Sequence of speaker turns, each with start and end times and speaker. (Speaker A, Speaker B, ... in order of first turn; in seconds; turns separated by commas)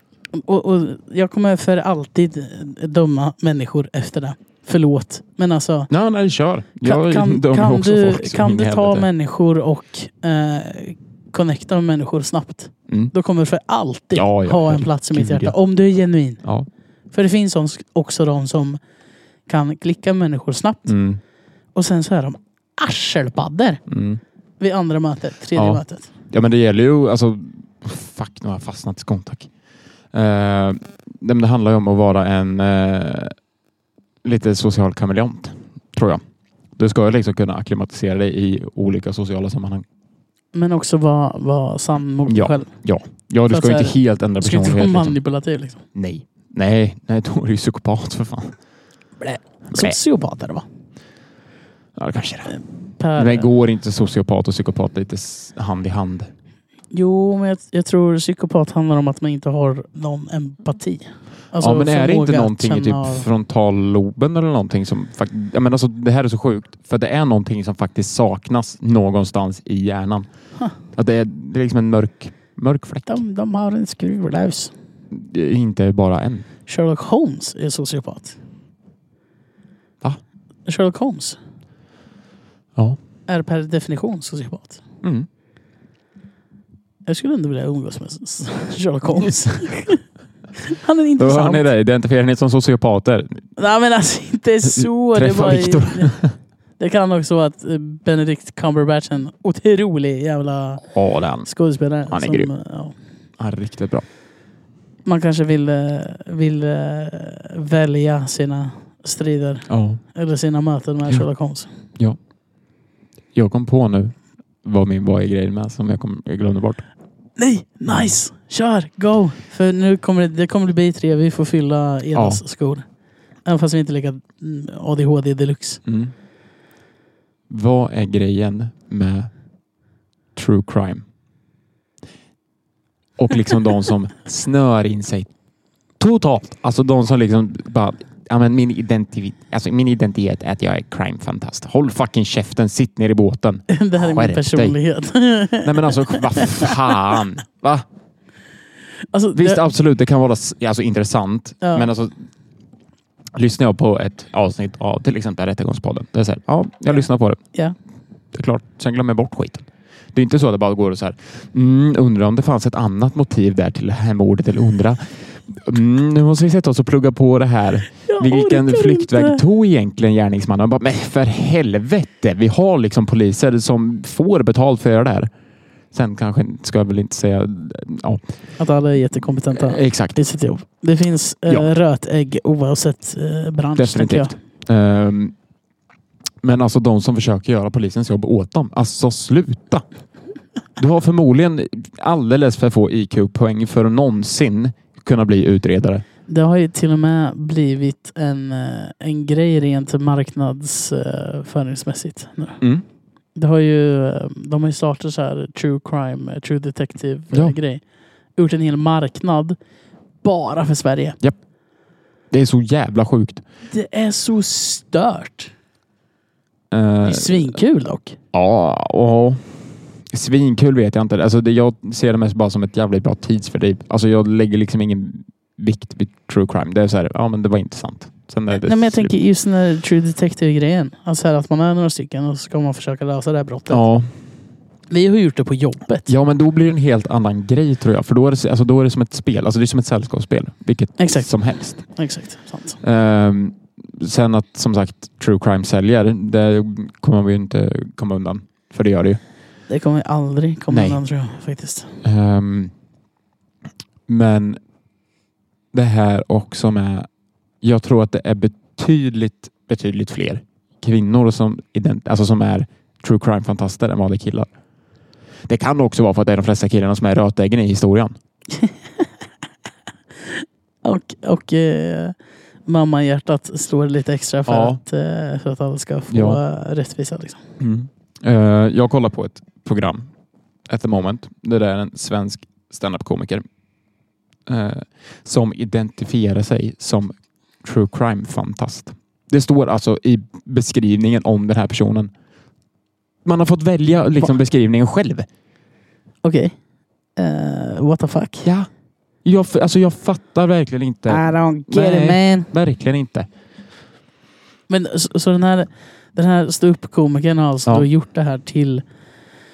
Speaker A: 0.3-5.9, Speaker B: 5.9-9.1, Speaker A: 6.8-16.4, Speaker B: 14.1-15.5, Speaker A: 17.1-18.8, Speaker A: 19.5-20.9, Speaker B: 20.9-21.2, Speaker A: 21.8-23.8, Speaker B: 23.9-24.2, Speaker A: 24.6-26.1, Speaker B: 25.6-29.5, Speaker B: 30.1-33.4, Speaker B: 34.2-36.2, Speaker B: 36.8-39.9, Speaker A: 40.5-42.7, Speaker B: 42.3-45.1, Speaker A: 43.5-45.8, Speaker B: 45.9-48.5, Speaker A: 49.2-50.7, Speaker B: 52.0-52.5, Speaker A: 52.5-53.5, Speaker B: 53.2-56.3, Speaker A: 56.9-63.3, Speaker B: 61.6-70.3, Speaker B: 70.9-73.2, Speaker A: 73.1-74.7, Speaker B: 75.1-76.5, Speaker A: 76.7-78.4, Speaker A: 80.7-81.4, Speaker A: 83.3-84.8, Speaker B: 85.0-85.3, Speaker A: 87.0-90.0, Speaker A: 90.6-91.7, Speaker B: 91.2-93.5, Speaker A: 93.6-96.2, Speaker B: 94.6-96.3, Speaker A: 96.8-100.8, Speaker B: 100.9-101.5, Speaker A: 101.4-103.0, Speaker B: 102.1-102.5, Speaker B: 103.4-104.0, Speaker A: 105.0-111.7, Speaker B: 109.7-110.0, Speaker B: 113.3-116.8, Speaker A: 117.4-122.8, Speaker B: 117.9-118.1, Speaker B: 122.1-122.4, Speaker A: 123.5-125.8, Speaker B: 125.8-126.1, Speaker B: 127.5-129.3, Speaker B: 130.3-131.1, Speaker B: 133.2-135.3, Speaker B: 136.0-144.8, Speaker A: 143.7-146.9, Speaker B: 145.6-147.9, Speaker A: 149.1-149.6, Speaker B: 149.3-152.1, Speaker A: 151.6-151.9, Speaker B: 153.3-157.4, Speaker B: 158.3-175.3, Speaker A: 168.1-169.4, Speaker B: 175.9-178.2, Speaker A: 178.6-184.3, Speaker B: 179.5-180.2, Speaker B: 183.8-185.3, Speaker B: 186.4-189.8, Speaker B: 190.8-196.0, Speaker A: 196.3-202.6, Speaker A: 203.3-207.8, Speaker B: 207.3-207.6, Speaker A: 208.4-209.6, Speaker A: 210.2-211.2, Speaker B: 212.3-213.4, Speaker A: 213.7-215.5, Speaker B: 216.7-217.6, Speaker A: 217.1-218.2, Speaker B: 218.3-229.1, Speaker A: 228.5-233.8, Speaker B: 233.7-234.1, Speaker A: 234.9-236.1, Speaker B: 236.1-241.8, Speaker A: 241.0-242.8, Speaker B: 242.8-249.2, Speaker A: 249.7-251.9, Speaker B: 250.7-251.0, Speaker B: 252.0-252.7, Speaker B: 254.1-254.6, Speaker B: 255.7-257.1, Speaker B: 257.6-264.5, Speaker B: 265.5-268.1, Speaker A: 268.5-269.1, Speaker A: 270.2-272.1, Speaker A: 272.7-277.4, Speaker B: 274.5-274.8, Speaker B: 276.1-276.4, Speaker B: 277.6-280.1, Speaker B: 280.7-283.4, Speaker B: 284.4-292.1, Speaker B: 293.2-295.3, Speaker A: 296.2-296.6, Speaker A: 297.2-298.5, Speaker B: 298.4-298.7, Speaker B: 299.2-303.3, Speaker A: 301.1-302.5, Speaker A: 304.7-308.8